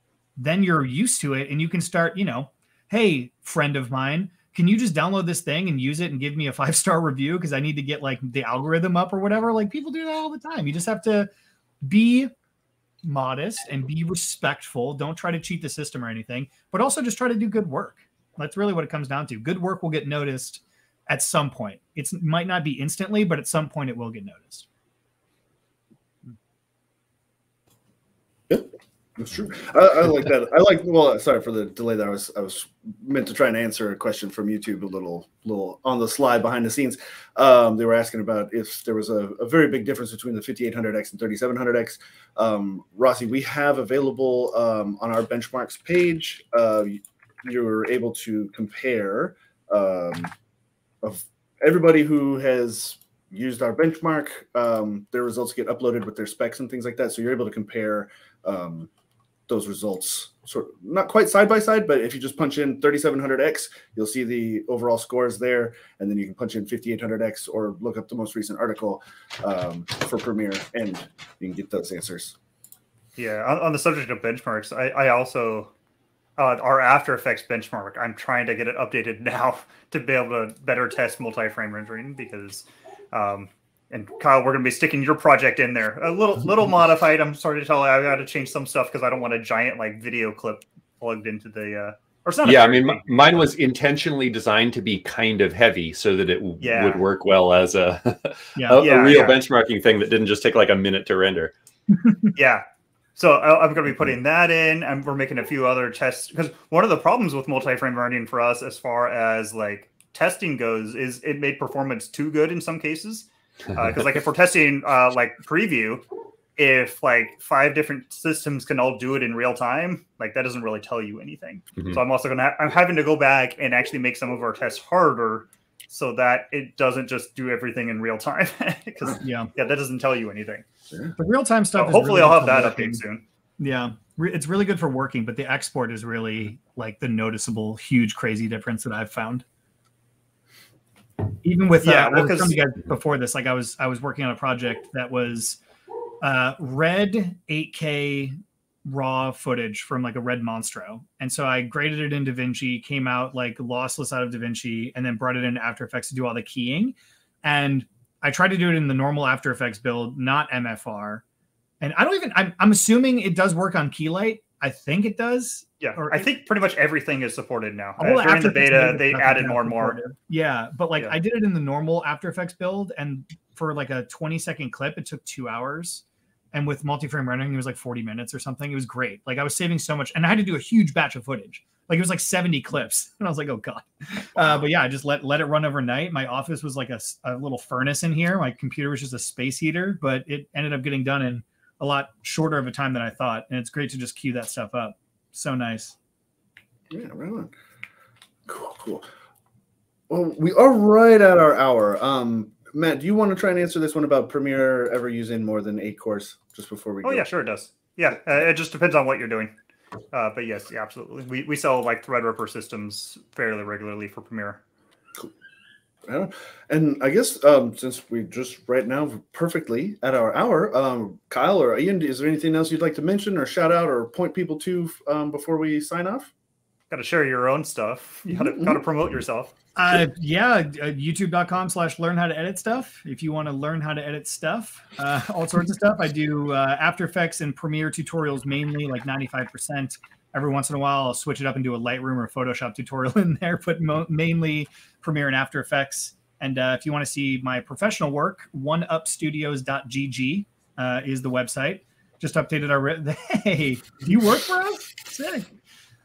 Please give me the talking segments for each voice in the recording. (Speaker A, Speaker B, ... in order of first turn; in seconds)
Speaker A: 0.4-11.3, 11.8-12.3, 13.0-24.6, 98.5-98.8, 129.2-129.5, 131.2-133.0, 133.6-139.4, 141.4-145.6, 146.2-161.2, 161.8-166.3, 168.0-195.9, 229.8-255.5
Speaker B: 28.5-50.3, 51.0-58.9, 59.5-72.3, 196.9-197.5, 198.5-199.1, 200.1-207.3, 216.1-226.3, 228.3-228.8
Speaker C: 73.2-75.7, 76.4-93.4, 96.6-97.0, 98.8-99.4, 102.3-102.6, 103.2-116.0, 116.6-130.6, 131.7-133.2, 141.8-142.6, 165.8-170.0, 207.0-209.5, 210.1-214.6, 226.9-229.5
Speaker D: 92.4-101.5